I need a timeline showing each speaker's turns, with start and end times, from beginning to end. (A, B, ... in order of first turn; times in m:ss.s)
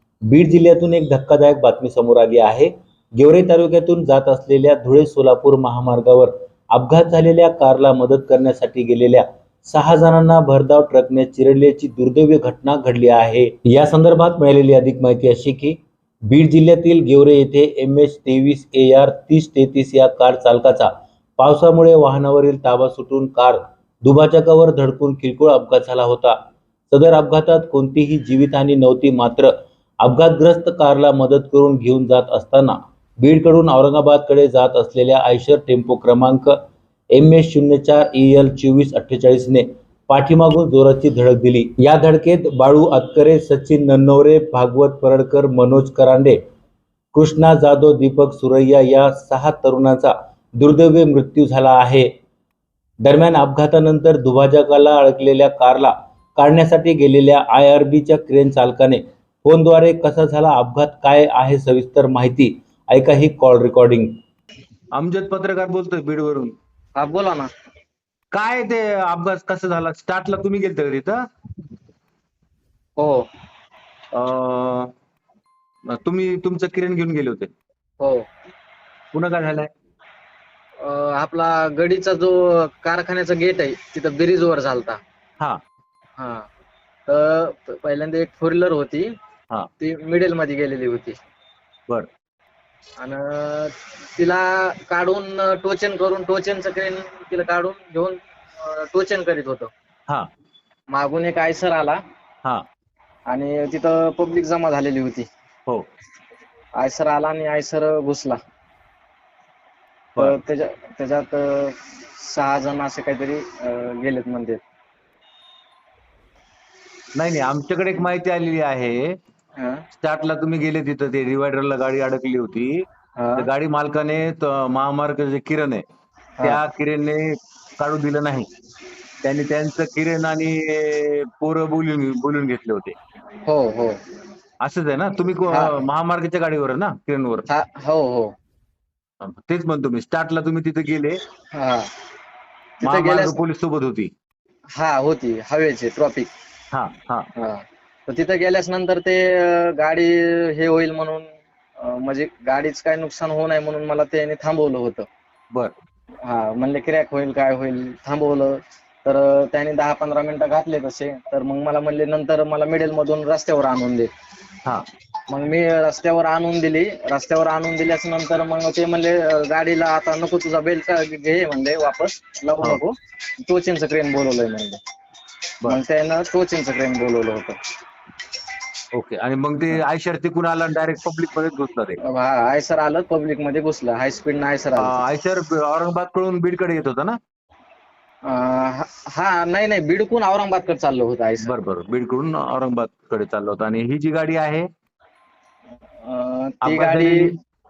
0:00.3-0:15.8 A
0:16.3-0:26.4 A
0:26.9-0:36.5 A
0:37.1-0:46.4 A
0:47.1-0:52.1 A
0:53.0-1:04.1 A
1:05.0-1:06.5 B
1:07.0-1:07.5 C
1:08.3-1:11.2 B
1:13.0-1:13.3 C
1:14.1-1:14.9 B
1:15.9-1:17.5 B
1:18.0-1:18.3 C
1:19.1-1:19.7 B
1:20.8-1:25.0 C
1:26.2-1:26.5 C
1:27.1-1:29.1 C
1:29.8-1:31.2 C
1:33.0-1:39.7 C
1:40.9-1:42.0 C
1:43.3-1:45.3 C
1:46.8-1:48.4 C
1:50.2-1:54.6 C
1:57.2-1:59.2 B
1:59.6-1:59.8 C
1:59.9-2:02.9 B
2:03.2-2:03.5 C
2:03.4-2:05.8 B
2:06.4-2:08.5 B
2:09.2-2:13.0 B
2:13.4-2:14.0 C
2:14.6-2:17.5 B
2:15.4-2:15.8 C
2:17.5-2:18.3 C
2:19.2-2:21.2 B
2:21.5-2:21.9 C
2:22.8-2:23.4 C
2:22.8-2:24.1 B
2:24.8-2:26.3 C
2:26.7-2:27.3 B
2:27.4-2:35.1 C
2:36.2-2:44.1 C
2:45.3-2:54.8 C
2:55.6-2:57.6 C
2:58.9-3:02.0 B
3:02.0-3:05.0 C
3:04.8-3:07.2 B
3:08.3-3:11.5 C
3:11.4-3:14.7 B
3:16.0-3:17.3 C
3:16.6-3:17.3 B